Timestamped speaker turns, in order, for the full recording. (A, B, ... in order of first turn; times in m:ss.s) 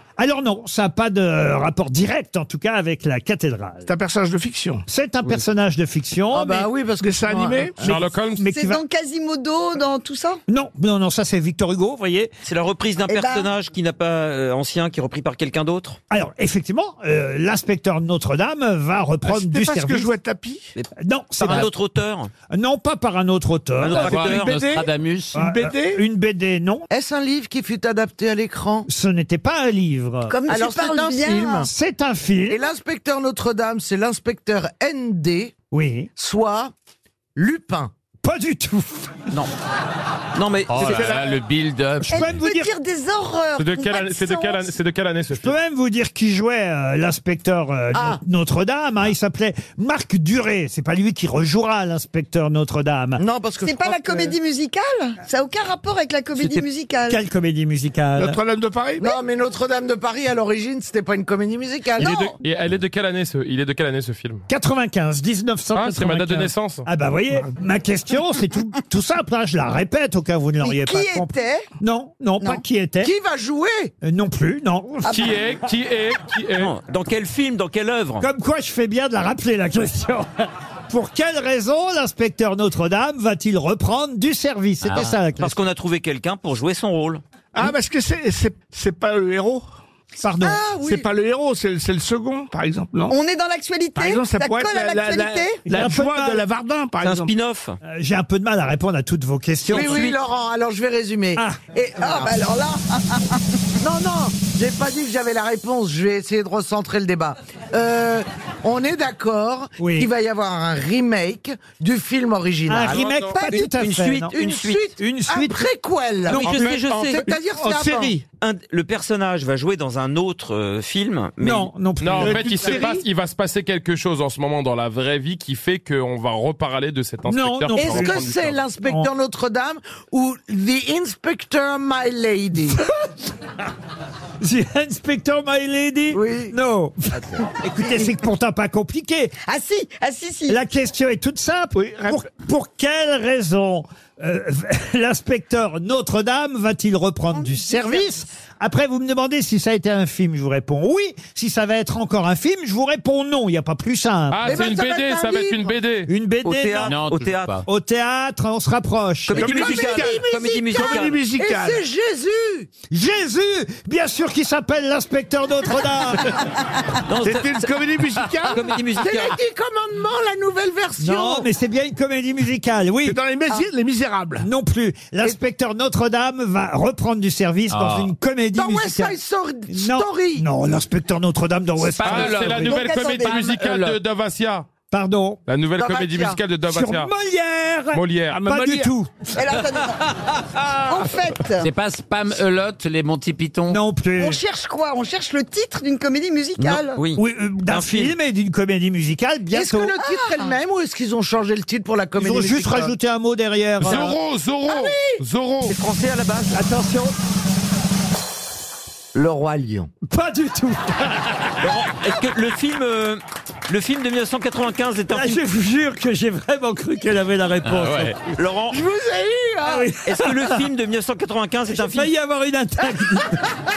0:00.2-0:03.9 A
0:03.8-0:04.8 B
0:04.9-0:06.7 A
0:06.3-0:07.9 C
0:07.0-0:07.7 B
0:07.8-0:08.8 A
0:07.8-0:08.5 D
0:08.5-0:10.4 E
0:10.5-0:12.3 A
0:12.4-0:16.0 F
0:13.1-0:13.5 E
0:16.1-0:20.1 A
0:19.2-0:20.7 B
0:21.0-0:21.7 A
0:21.4-0:22.3 F
0:22.5-0:24.4 A
0:23.8-0:24.6 F
0:24.0-0:25.4 G
0:24.2-0:26.0 B
0:25.3-0:26.9 A
0:26.9-0:28.9 C
0:28.9-0:30.4 A
0:30.3-0:31.6 E
0:30.5-0:31.7 C
0:31.6-0:32.6 A
0:32.5-0:35.6 C
0:35.7-0:36.1 A
0:36.2-0:36.7 C
0:37.4-0:37.9 C
0:38.2-0:39.3 A
0:40.3-0:41.2 F
0:40.7-0:42.3 G
0:40.8-0:41.4 B
0:42.0-0:42.7 A
0:42.1-0:44.7 E
0:43.6-0:45.5 D
0:45.3-0:53.2 A
0:47.9-0:48.2 C
0:53.2-0:54.3 C
0:53.6-0:57.2 E
0:56.4-0:56.6 F
0:57.0-0:58.4 A
0:58.2-0:59.1 B
0:59.0-1:02.2 C
1:02.0-1:02.4 E
1:02.0-1:02.4 A
1:02.4-1:04.4 D
1:04.5-1:11.3 A
1:05.7-1:06.9 D
1:10.6-1:11.7 E
1:11.8-1:13.1 A
1:13.0-1:13.9 C
1:14.0-1:15.2 A
1:15.0-1:15.3 E
1:15.1-1:16.7 D
1:16.6-1:18.3 F
1:18.2-1:25.6 A
1:24.9-1:27.2 F
1:27.5-1:29.6 B
1:30.2-1:30.6 A
1:30.4-1:31.0 C
1:30.7-1:33.1 B
1:33.1-1:35.7 E
1:34.0-1:37.3 B
1:35.7-1:36.4 A
1:37.0-1:37.8 F
1:37.8-1:40.0 A
1:39.7-1:40.2 F
1:39.7-1:42.3 C
1:42.0-1:43.4 E
1:43.8-1:53.0 C
1:49.8-1:50.1 A
1:52.7-1:54.4 A
1:52.8-1:53.4 D
1:53.3-1:53.7 E
1:53.6-1:54.9 F
1:54.3-1:56.6 C
1:55.0-1:55.6 A
1:56.2-1:56.6 A
1:56.3-1:57.2 F
1:56.4-1:57.2 D
1:57.1-1:58.2 C
1:57.3-1:58.2 B
1:58.4-2:01.7 F
2:01.4-2:02.9 A
2:02.0-2:08.6 D
2:02.2-2:03.0 B
2:07.3-2:08.2 A
2:07.8-2:12.8 C
2:08.8-2:09.1 A
2:12.8-2:13.1 A
2:14.4-2:19.3 A
2:16.1-2:16.5 C
2:19.4-2:20.6 E
2:20.5-2:34.6 A
2:21.7-2:22.2 B
2:27.3-2:28.2 E
2:34.3-2:36.1 D
2:34.4-2:35.7 C
2:36.1-2:36.9 A
2:36.4-2:37.5 F
2:36.8-2:37.6 G
2:37.6-2:39.6 A
2:39.3-2:41.2 F
2:39.3-2:41.8 B
2:39.4-2:42.7 C
2:42.9-2:46.4 A
2:47.1-2:47.7 F
2:47.2-2:48.6 B
2:48.5-2:49.4 F
2:49.0-2:51.5 C
2:51.0-2:53.2 A
2:53.0-2:54.4 B
2:54.4-2:59.2 A
2:57.7-2:58.1 G
2:58.6-3:00.4 C
2:59.7-3:02.8 A
3:01.8-3:04.0 G
3:02.0-3:04.6 D
3:02.7-3:03.4 E
3:04.9-3:05.4 A
3:05.5-3:07.1 D
3:05.8-3:06.4 C
3:06.7-3:09.3 A
3:07.9-3:08.5 D
3:08.3-3:08.9 B
3:09.3-3:10.0 E
3:10.2-3:10.7 G
3:10.8-3:11.7 E
3:11.6-3:13.8 G
3:13.7-3:14.4 A
3:14.2-3:17.0 E
3:16.6-3:18.2 F
3:17.2-3:19.9 A
3:19.5-3:22.9 C
3:20.0-3:20.4 E
3:22.2-3:24.2 A
3:23.8-3:25.8 D
3:24.7-3:25.2 C
3:25.6-3:26.6 F
3:26.5-3:27.1 A
3:29.1-3:29.9 C
3:30.1-3:31.6 A
3:31.6-3:35.4 F
3:35.1-3:38.2 A
3:37.6-3:38.2 G
3:38.2-3:38.8 F
3:38.7-3:39.8 C
3:39.6-3:40.6 A
3:40.0-3:42.1 F
3:41.7-3:43.4 A